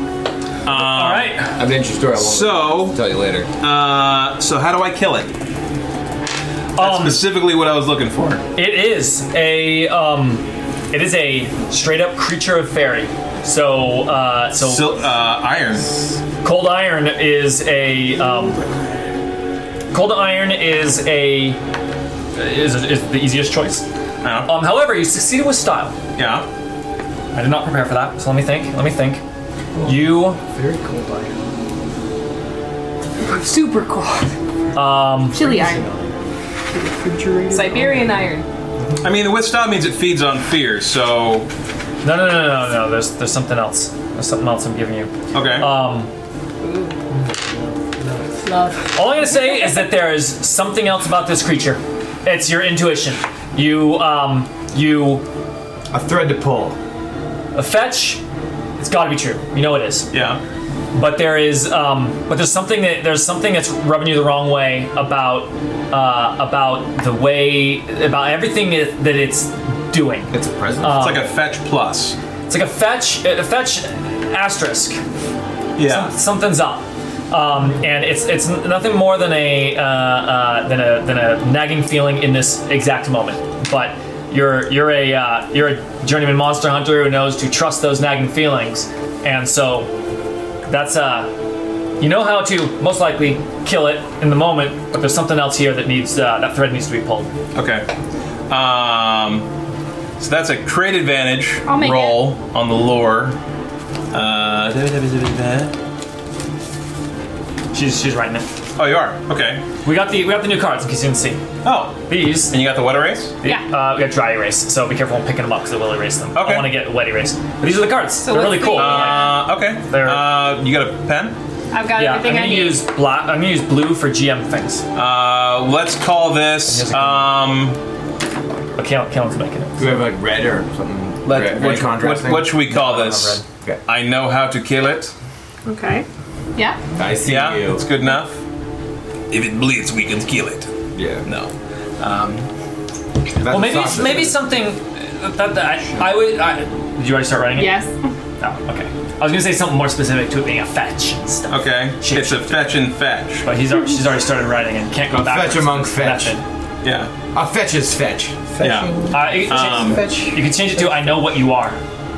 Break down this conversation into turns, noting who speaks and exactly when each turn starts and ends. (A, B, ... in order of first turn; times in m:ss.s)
0:00.6-0:01.4 A
0:00.7-0:01.5 B
0:01.6-0:03.5 C
0:02.2-0:03.0 A
0:03.6-0:05.3 A
0:06.8-0:07.2 B
0:06.8-0:08.4 A
0:08.6-0:15.0 B
0:14.6-0:15.9 A
0:16.4-0:18.6 B
0:19.9-0:21.6 B
0:22.4-0:23.8 B
0:24.2-0:24.5 A
0:24.4-0:26.0 B
0:26.2-0:26.5 A
0:27.3-0:29.2 B
0:29.8-0:31.4 D
0:29.8-0:30.4 B
0:33.2-0:34.3 E
0:34.8-0:35.4 B
0:35.3-0:35.8 E
0:35.3-0:36.1 D
0:37.0-0:39.1 D
0:37.5-0:38.4 E
0:39.0-0:41.5 A
0:42.0-0:46.1 B
0:45.3-0:45.7 A
0:46.6-0:47.0 E
0:47.2-0:48.4 D
0:48.4-0:48.9 E
0:48.9-0:55.2 B
0:55.9-0:56.8 C
0:57.5-0:58.2 B
0:58.8-1:00.1 B
1:00.1-1:00.4 A
1:00.9-1:11.3 B
1:10.3-1:11.1 C
1:11.0-1:12.2 A
1:12.5-1:15.0 B
1:15.8-1:16.1 A
1:15.8-1:29.9 B
1:30.7-1:31.3 B
1:32.0-1:37.3 B
1:37.6-1:37.9 A
1:38.5-1:39.5 A
1:40.2-1:43.4 A
1:41.7-1:42.2 E
1:44.1-1:45.7 A
1:47.7-1:48.5 B
1:48.8-1:49.6 A
1:49.8-1:51.4 B
1:51.6-1:53.3 A
1:52.1-1:52.5 B
1:53.4-2:00.2 B
1:56.4-1:56.7 A
1:58.2-1:59.4 E
1:58.7-2:01.4 A
2:01.7-2:02.8 E
2:02.0-2:04.8 B
2:05.0-2:07.8 A
2:06.7-2:07.3 B
2:08.8-2:10.0 B
2:09.8-2:13.8 C
2:11.2-2:15.1 A
2:15.7-2:16.8 E
2:17.0-2:17.8 C
2:17.2-2:18.4 A
2:19.3-2:20.7 A
2:21.0-2:21.2 C
2:21.2-2:22.5 A
2:23.4-2:24.4 C
2:23.5-2:27.8 B
2:27.6-2:27.9 E
2:28.4-2:32.8 B
2:31.5-2:33.5 A
2:33.4-2:36.4 B
2:35.1-2:36.4 C
2:36.8-2:37.1 A
2:37.3-2:38.4 C
2:38.5-2:41.2 D
2:38.6-2:40.1 A
2:39.1-2:41.8 B